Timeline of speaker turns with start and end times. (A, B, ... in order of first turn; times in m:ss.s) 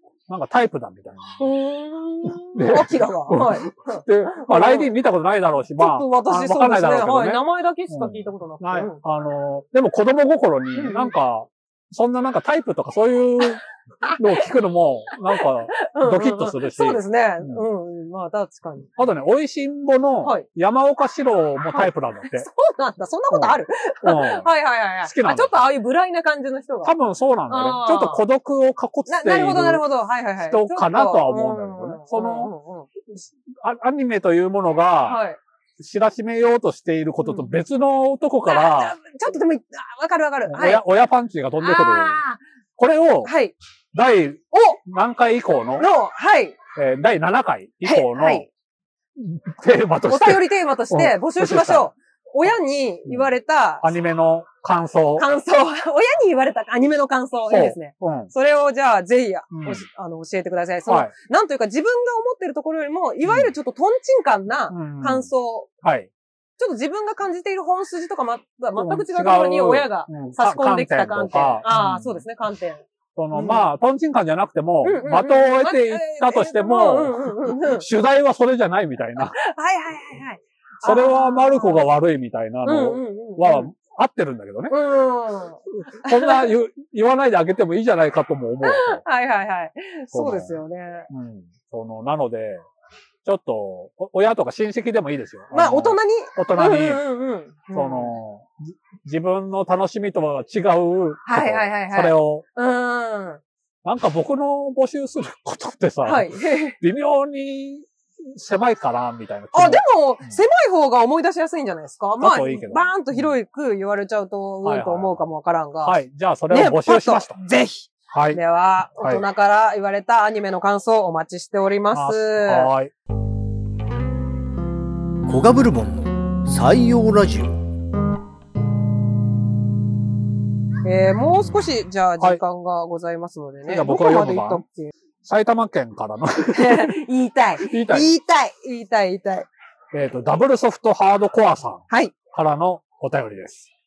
0:00.3-0:01.4 A
0:01.4-0:04.9 B
0:02.2-0:13.6 A
0:05.8-0:09.0 B
0:10.8-0:11.1 B
0:13.4-0:14.4 B
0:14.2-0:17.6 A
0:15.3-0:18.9 B
0:19.0-0:22.5 A
0:21.7-0:27.0 B
0:23.3-0:24.5 A
0:25.0-0:25.6 A
0:26.8-0:29.8 A
0:27.5-0:28.2 B
0:29.1-0:32.9 B
0:30.4-0:32.5 A
0:33.1-0:35.2 A
0:35.1-0:35.4 B
0:35.8-0:39.0 A
0:37.2-0:37.6 B
0:38.5-0:40.8 B
0:40.5-0:42.2 A
0:41.6-0:42.4 B
0:42.8-0:43.3 A
0:43.2-0:43.5 B
0:43.9-0:45.9 A
0:44.5-0:44.8 B
0:45.8-0:46.6 B
0:46.8-0:48.5 A
0:47.8-0:48.5 B
0:49.2-0:51.9 A
0:50.1-0:53.9 B
0:53.8-0:55.3 A
0:55.2-1:05.7 B
0:57.5-0:58.3 A
0:59.5-0:59.9 A
1:00.9-1:01.1 A
1:03.2-1:03.5 A
1:04.7-1:05.3 A
1:05.8-1:06.1 A
1:06.6-1:13.7 B
1:08.8-1:12.2 A
1:13.2-1:19.4 A
1:14.8-1:17.9 B
1:19.2-1:21.8 B
1:20.8-1:24.8 A
1:22.6-1:23.7 B
1:24.7-1:26.5 B
1:25.9-1:29.0 A
1:28.6-1:31.1 B
1:30.1-1:30.6 A
1:31.1-1:32.6 A
1:33.2-1:37.0 A
1:35.5-1:38.2 B
1:37.7-1:42.4 A
1:41.2-1:43.4 B
1:43.8-1:50.4 A
1:46.0-1:46.8 B
1:49.5-1:56.0 B
1:52.2-1:53.4 A
1:54.6-1:55.2 A
1:55.8-1:57.4 A
1:56.5-2:02.7 B
1:58.1-1:58.4 A
1:59.0-1:59.2 A
2:01.9-2:02.9 A
2:05.3-2:07.6 C
2:10.8-2:14.9 B
2:13.6-2:14.6 A
2:15.2-2:17.0 A
2:16.5-2:19.5 B
2:17.6-2:18.1 A
2:19.9-2:23.7 A
2:21.9-2:22.2 B